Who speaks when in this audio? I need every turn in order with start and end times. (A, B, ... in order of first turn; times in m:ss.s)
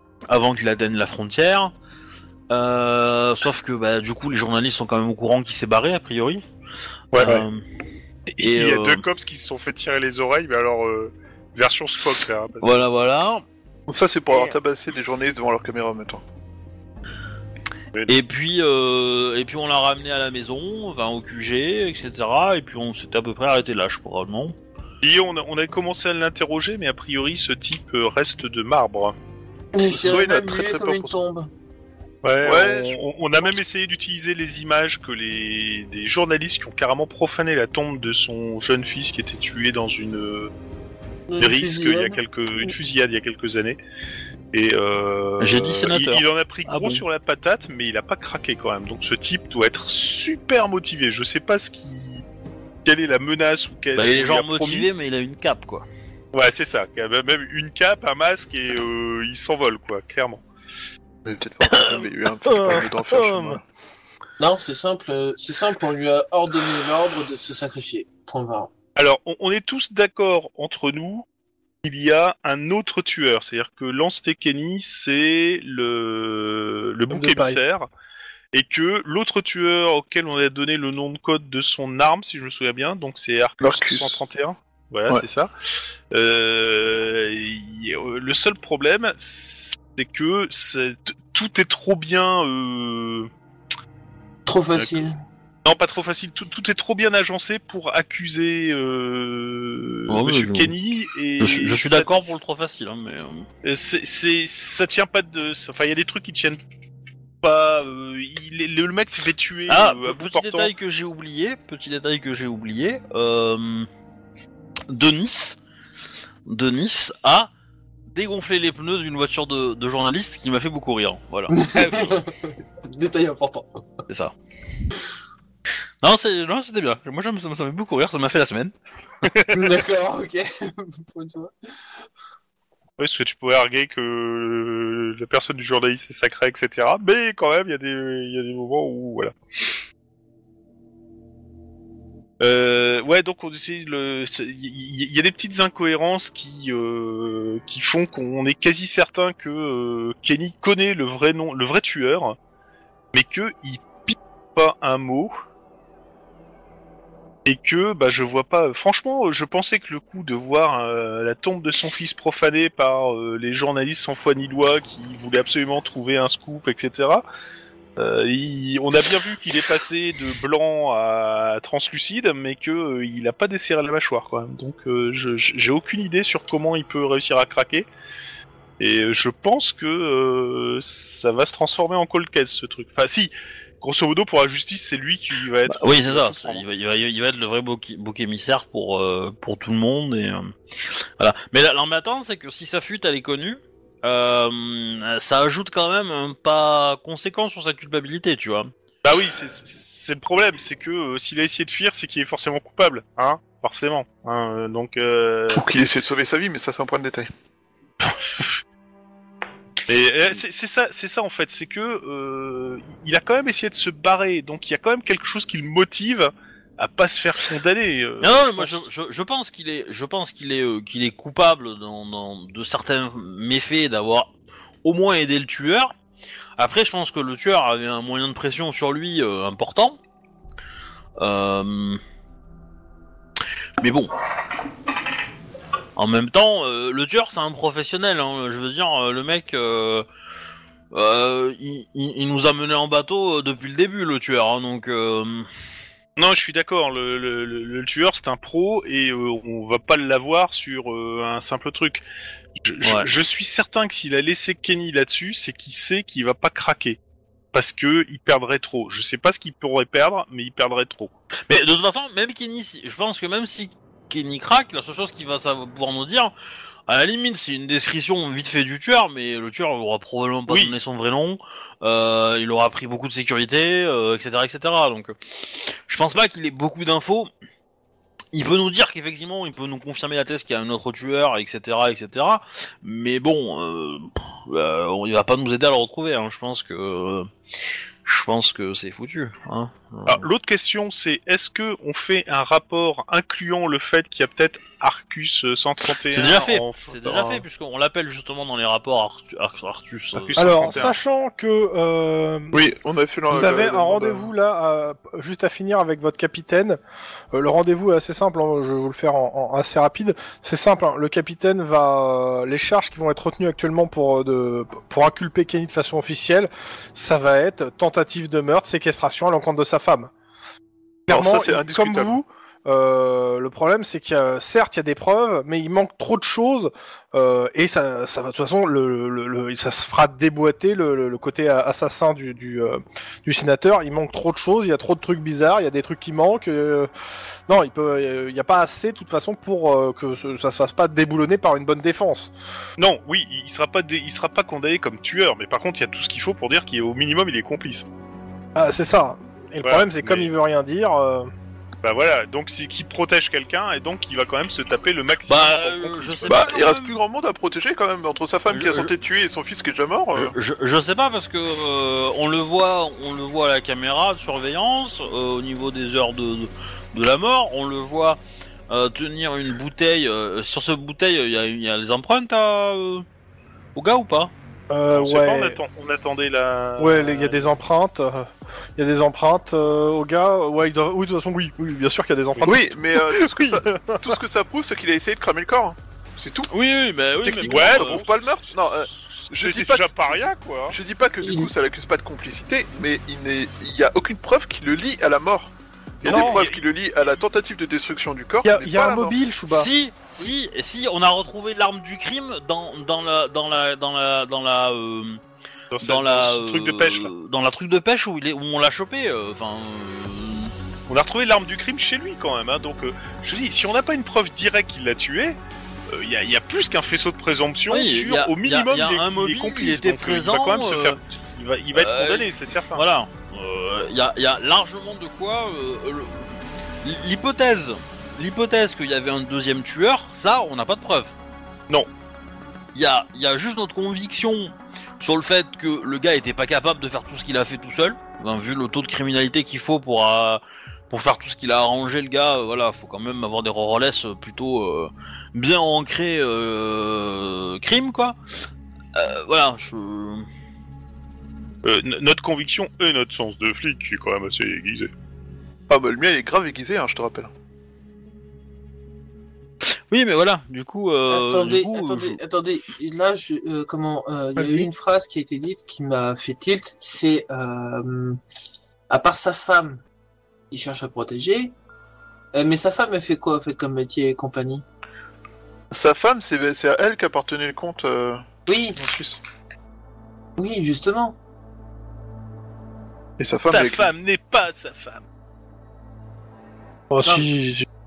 0:00.3-0:01.7 A
0:02.5-0:06.4 A
0:07.1-0:07.5 B
0:07.1-0:07.6 A
0:08.3-0:12.7 B
0:08.4-0:09.0 A
0:12.6-0:13.4 A
0:13.9-0:16.2 C
0:18.1-0:24.6 A
0:25.0-0:29.2 B
0:29.7-0:31.5 D
0:29.9-0:31.2 C
0:32.2-0:40.5 B
0:32.4-0:33.5 C
0:41.3-0:42.7 D
0:41.4-0:43.8 B
0:44.5-0:52.2 B
0:45.4-0:47.0 A
0:52.8-0:54.9 B
0:53.9-0:55.9 A
0:56.3-1:00.4 B
1:01.2-1:03.6 C
1:02.4-1:03.6 E
1:04.4-1:08.7 D
1:09.0-1:11.2 B
1:11.8-1:17.9 B
1:17.1-1:17.6 E
1:18.5-1:25.5 B
1:23.6-1:24.2 C
1:26.1-1:33.3 B
1:34.5-1:35.2 D
1:34.8-1:35.0 B
1:35.6-1:42.4 B
1:40.1-1:40.7 A
1:41.4-1:43.5 A
1:43.6-1:46.6 B
1:47.4-1:50.7 B
1:49.7-1:53.9 A
1:54.9-1:55.6 A
1:56.5-1:57.5 A
1:58.1-2:02.2 A
2:01.5-2:03.9 D
2:04.1-2:04.3 A
2:06.0-2:08.7 A
2:09.3-2:09.6 B
2:09.5-2:11.5 D
2:13.0-2:19.7 B
2:22.4-2:32.4 B
2:33.1-2:35.3 B
2:37.5-2:47.2 B
2:48.0-2:57.9 B
2:58.8-3:06.6 B
3:05.7-3:18.7 A
3:19.0-3:25.6 B
3:25.5-3:27.3 C
3:29.9-3:38.8 B
3:38.2-3:44.3 A
3:44.8-3:45.9 A
3:46.6-3:50.0 A
3:51.2-3:52.0 A
3:53.8-3:54.1 A
3:56.0-4:00.1 A
4:00.9-4:05.5 A
4:06.2-4:12.0 B
4:12.6-4:17.0 B
4:12.8-4:13.1 A
4:17.5-4:21.1 B
4:21.5-4:26.3 A
4:26.9-4:37.3 A
4:30.5-4:30.8 B
4:38.3-4:47.3 A
4:48.0-4:50.3 A
4:50.1-4:57.4 B
4:56.1-5:00.9 A
5:00.2-5:00.9 B
5:00.4-5:02.6 E
5:02.5-5:04.3 C
5:03.3-5:06.8 E
5:07.3-5:20.1 E
5:21.1-5:36.9 E
5:21.1-5:22.2 C
5:37.5-5:42.3 E
5:42.8-5:47.9 B
5:48.6-5:51.3 E
5:49.6-5:50.3 B
5:51.8-5:56.4 B
5:55.3-5:57.0 A
5:56.3-6:00.3 C
5:58.5-5:58.9 A
6:00.1-6:13.0 A
6:13.8-6:14.3 A
6:14.7-6:15.6 E
6:14.9-6:17.5 B
6:16.8-6:24.2 E
6:22.4-6:26.5 C
6:26.5-6:28.1 A
6:27.2-6:39.2 C
6:27.4-6:28.1 B
6:29.2-6:30.8 B
6:31.2-6:31.5 D
6:36.0-6:36.6 B
6:36.0-6:36.4 E
6:38.4-6:39.7 E
6:39.5-6:45.2 A
6:45.7-6:47.1 B
6:45.8-6:50.5 A
6:50.9-7:02.8 B
6:57.7-7:01.0 A
7:01.7-7:11.2 A
7:12.7-7:28.2 A
7:28.9-7:30.3 A
7:31.6-7:34.9 B
7:35.7-7:37.3 C
7:39.9-7:42.2 A
7:41.1-7:48.2 D
7:44.4-7:44.7 E
7:48.9-7:49.8 D
7:50.5-7:51.6 D
7:52.3-7:54.6 D
7:55.7-7:58.2 C
7:58.5-7:58.8 D
7:58.8-7:59.2 C
8:00.4-8:01.2 D
8:03.2-8:03.9 C
8:03.5-8:05.0 B
8:06.9-8:07.6 E